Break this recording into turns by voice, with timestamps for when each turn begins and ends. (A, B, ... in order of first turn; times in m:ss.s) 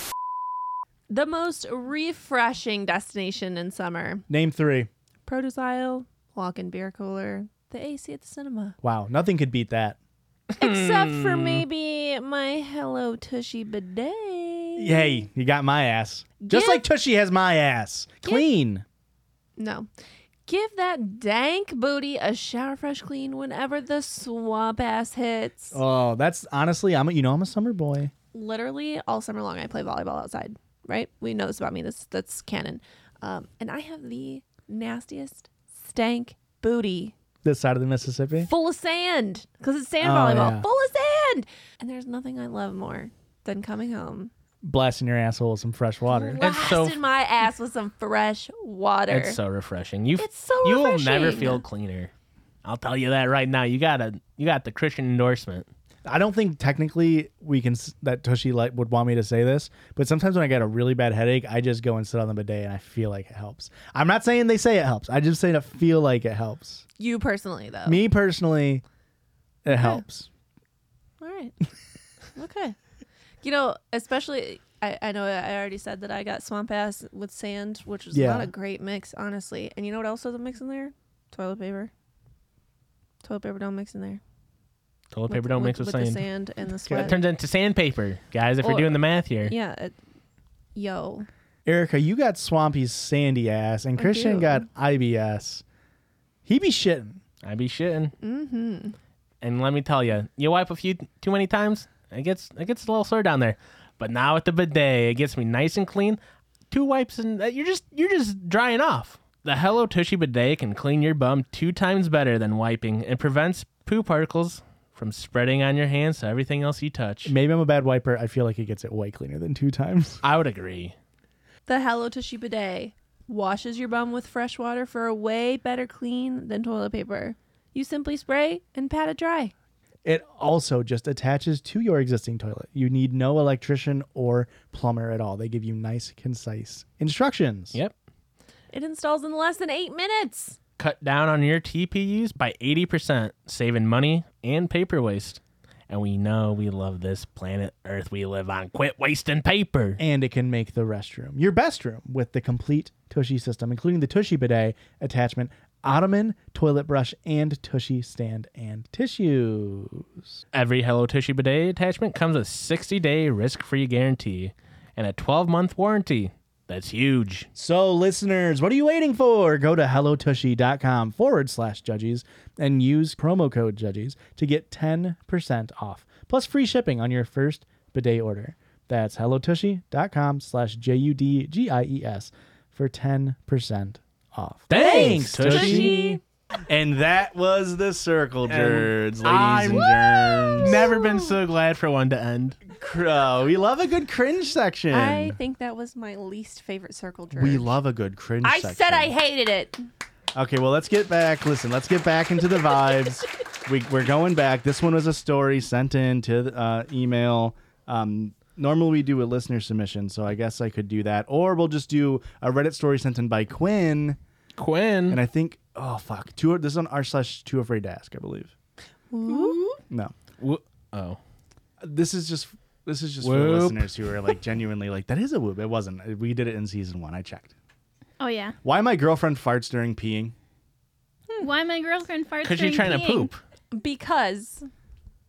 0:01.1-0:04.2 A
0:04.3-0:04.9 B
0:05.3-0:08.8 A
0:08.8-0:10.0 B
0:10.6-0:11.6 C
0:10.6-0:15.2 A
0:14.8-0:18.8 B
0:16.4-0:16.9 A
0:19.6-0:19.9 A
0:20.5-0:25.8 A
0:25.7-0:28.1 B
0:28.3-0:37.1 A
0:37.4-0:38.5 B
0:38.4-0:44.3 A
0:40.0-0:40.7 B
0:44.6-0:46.4 B
0:46.1-0:49.4 A
0:46.4-0:47.0 C
0:49.1-0:52.1 C
0:50.2-0:51.6 A
0:52.6-0:55.7 C
0:56.0-1:06.8 B
1:07.0-1:08.0 A
1:07.9-1:08.8 B
1:09.6-1:10.3 B
1:09.8-1:10.0 A
1:11.2-1:11.6 A
1:12.4-1:12.8 A
1:13.4-1:21.9 A
1:18.1-1:18.5 B
1:23.2-1:24.2 A
1:25.1-1:26.3 C
1:25.3-1:27.2 A
1:26.9-1:27.2 B
1:27.0-1:29.5 C
1:28.6-1:30.0 A
1:30.8-1:31.3 A
1:31.6-1:35.6 B
1:34.0-1:34.7 A
1:36.5-1:37.2 B
1:37.4-1:38.1 C
1:38.2-1:39.0 A
1:39.4-1:46.2 C
1:46.7-1:57.3 C
1:57.2-2:00.2 B
2:00.2-2:01.0 C
2:01.7-2:09.5 A
2:10.0-2:17.8 B
2:18.7-2:20.6 A
2:20.8-2:30.0 C
2:30.0-2:40.4 B
2:40.5-2:47.5 C
2:47.6-3:10.9 B
3:04.7-3:06.1 C
3:05.5-3:05.9 A
3:08.5-3:12.6 C
3:12.7-3:15.4 B
3:14.9-3:17.7 A
3:17.3-3:19.2 B
3:18.4-3:19.8 A
3:20.3-3:34.2 B
3:34.6-3:35.2 C
3:35.1-3:38.5 B
3:39.1-3:39.7 A
3:39.3-3:39.7 D
3:39.9-3:40.2 B
3:40.4-3:41.2 C
3:41.8-3:47.5 B
3:43.2-3:43.9 C
3:48.2-3:48.6 D
3:48.6-3:50.4 B
3:51.4-3:53.3 D
3:52.4-3:53.4 C
3:53.7-3:54.7 A